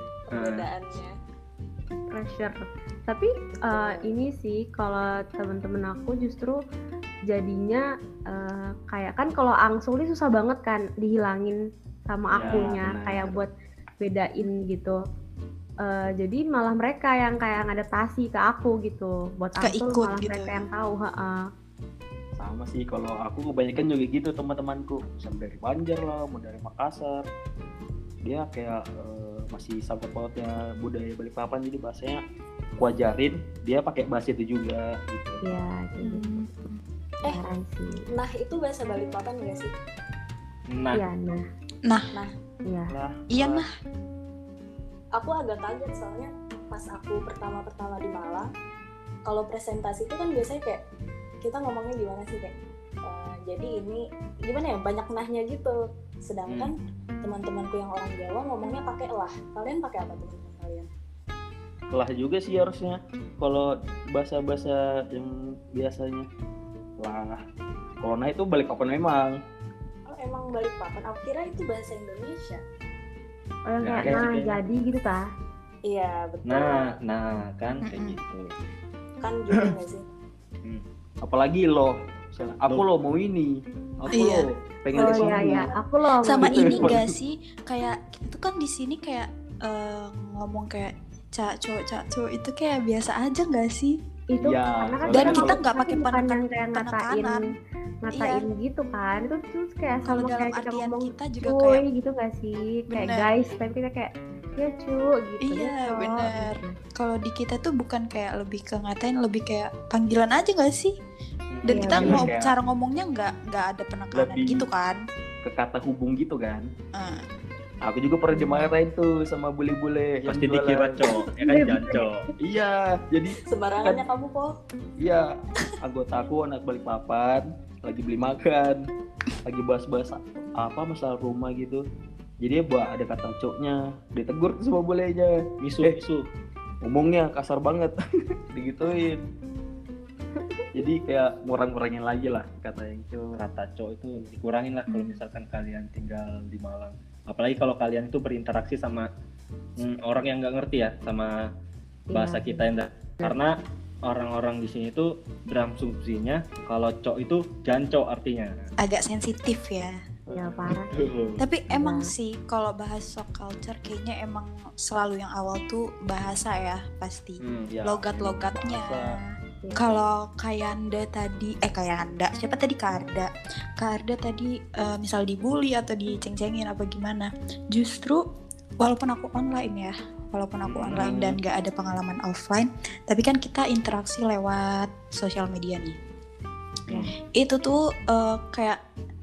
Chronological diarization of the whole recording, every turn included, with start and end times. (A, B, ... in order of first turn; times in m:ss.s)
0:00.3-0:01.1 A
0:00.3-0:00.7 B
0:02.1-0:06.6 C
0:03.7-0:04.1 A
0:07.3-0:13.5 C
0:12.3-0:13.4 D
0:14.0-0:15.0 C
0:15.8-0:21.4 C
0:19.6-0:20.6 E
0:22.4-0:27.2 D
0:28.2-0:32.2 D
0:32.8-0:35.4 D
0:35.4-0:36.4 C
0:36.0-0:36.8 E
0:37.2-0:38.0 C
0:38.1-0:39.7 A
0:40.7-0:41.0 B
0:40.9-0:41.4 C
0:42.7-0:42.9 C
0:42.9-0:43.7 D
0:43.3-0:43.7 E
0:45.2-0:48.5 A
0:49.3-0:50.8 A
0:51.4-0:52.5 A
0:53.1-1:00.9 A
0:56.5-0:56.7 B
1:01.9-1:06.3 D
1:07.0-1:07.4 D
1:08.0-1:09.4 D
1:10.1-1:12.6 A
1:13.7-1:15.2 C
1:13.8-1:14.6 B
1:15.9-1:17.0 A
1:16.4-1:18.5 B
1:17.8-1:18.2 E
1:19.2-1:20.0 A
1:21.2-1:25.7 D
1:24.1-1:24.5 E
1:25.0-1:26.9 C
1:25.0-1:25.7 A
1:26.2-1:34.0 E
1:26.4-1:27.1 D
1:34.3-1:37.4 C
1:34.4-1:35.6 D
1:35.1-1:37.5 E
1:38.0-1:46.8 C
1:38.1-1:38.5 E
1:40.0-1:41.8 E
1:42.9-1:43.3 E
1:45.4-1:51.0 E
1:51.5-1:52.2 B
1:51.6-1:55.0 E
1:51.7-1:52.2 C
1:51.9-1:52.5 D
1:54.2-1:54.7 D
1:55.4-1:56.7 D
1:57.0-1:57.2 E
1:57.8-2:01.2 D
2:00.2-2:02.3 B
2:01.4-2:02.1 C
2:02.4-2:04.0 D
2:03.5-2:04.5 A
2:05.0-2:08.8 D
2:09.4-2:11.8 D
2:12.4-2:16.0 D
2:15.6-2:16.3 B
2:16.8-2:18.0 D
2:18.5-2:19.2 D
2:20.4-2:20.7 C
2:20.7-2:23.3 D
2:23.3-2:29.1 B
2:24.9-2:25.2 E
2:29.8-2:31.4 B
2:32.1-2:32.7 C
2:32.1-2:33.5 B
2:34.0-2:38.7 B
2:38.8-2:40.0 E
2:40.3-2:41.0 C
2:40.4-2:41.4 B
2:41.4-2:49.2 E
2:41.7-2:42.1 C
2:47.4-2:47.8 B
2:47.7-2:49.2 D
2:49.6-2:49.9 C
2:49.8-2:58.2 E
2:58.8-3:06.0 E
3:00.7-3:01.4 B
3:07.4-3:08.8 E